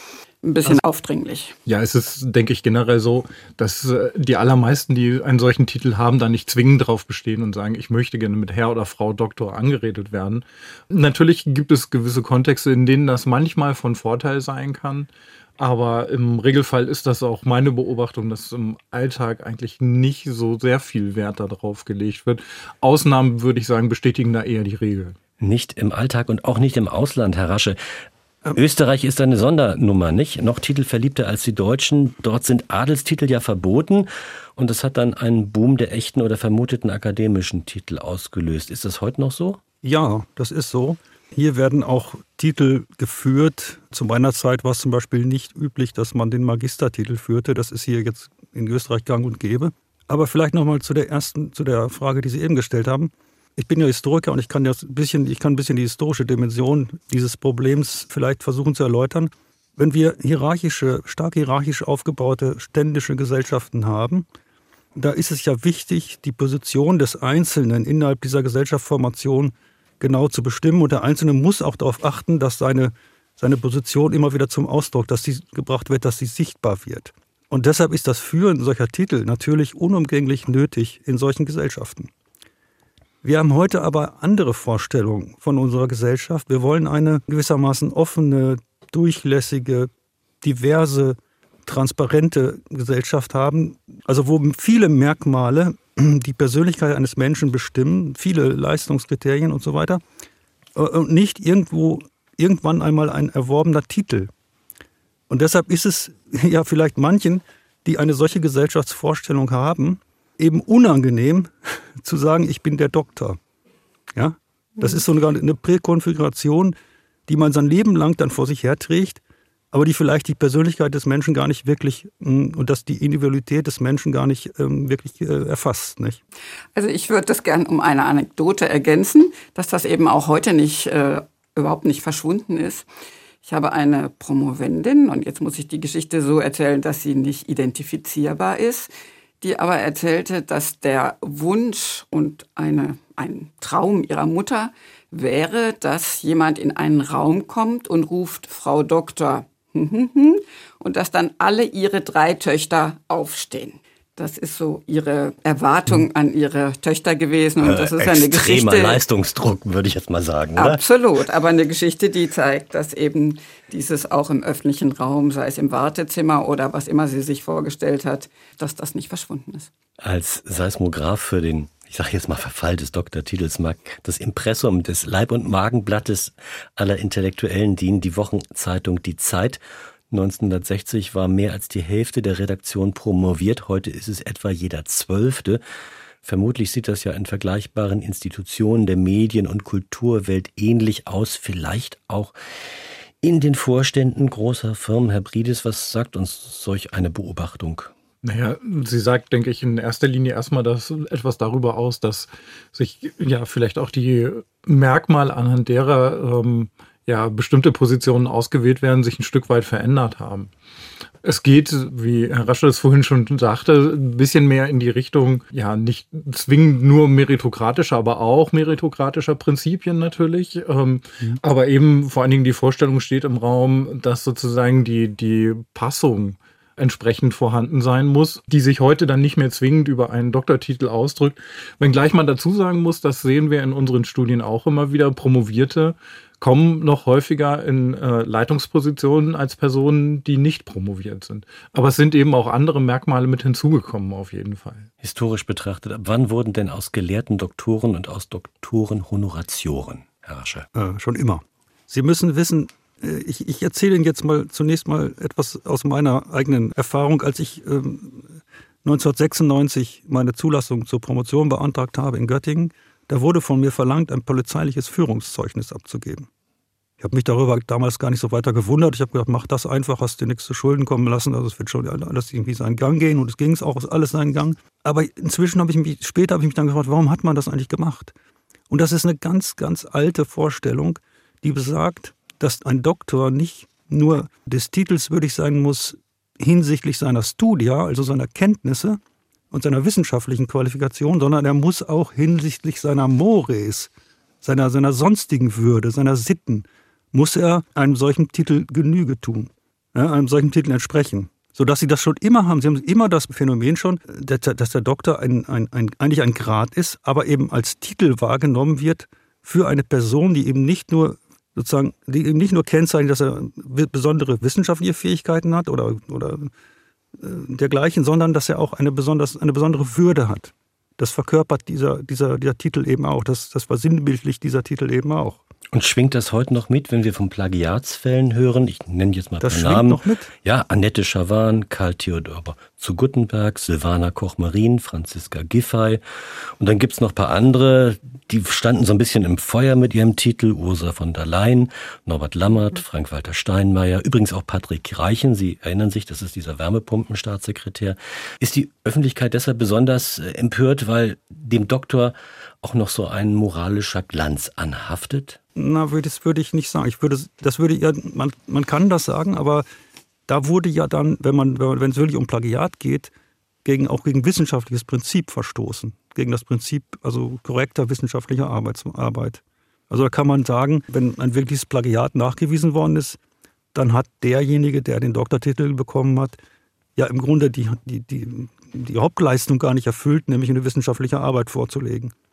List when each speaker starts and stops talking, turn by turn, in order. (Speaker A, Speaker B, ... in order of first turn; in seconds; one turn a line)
Speaker A: 0.4-1.6
Speaker B: 1.6-25.1
Speaker C: 25.4-27.8
Speaker C: 28.5-39.6
Speaker D: 39.8-64.3
Speaker D: 65.0-82.1
Speaker D: 83.2-89.9
Speaker D: 90.4-100.0
Speaker D: 100.7-104.3
Speaker D: 105.3-113.4
Speaker D: 114.1-116.7
Speaker D: 117.3-119.2
Speaker D: 119.7-126.2
Speaker A: 126.7-132.9
Speaker A: 133.4-159.0
Speaker C: 157.6-160.8
Speaker A: 160.6-169.7
Speaker C: 170.0-179.6
Speaker C: 180.1-185.6
Speaker C: 186.2-192.3
Speaker C: 193.2-197.9
Speaker B: 198.2-210.5
Speaker B: 211.2-244.9
Speaker C: 245.0-250.7
Speaker D: 250.7-266.3
Speaker D: 267.0-278.1
Speaker D: 278.7-289.0
Speaker D: 289.5-293.9
Speaker D: 294.4-316.5
Speaker D: 317.2-325.4
Speaker C: 325.7-336.0
Speaker D: 329.4-330.3
Speaker C: 336.6-355.4
Speaker D: 355.6-359.6
Speaker D: 360.3-363.1
Speaker D: 363.6-373.2
Speaker D: 373.7-376.4
Speaker D: 376.9-382.1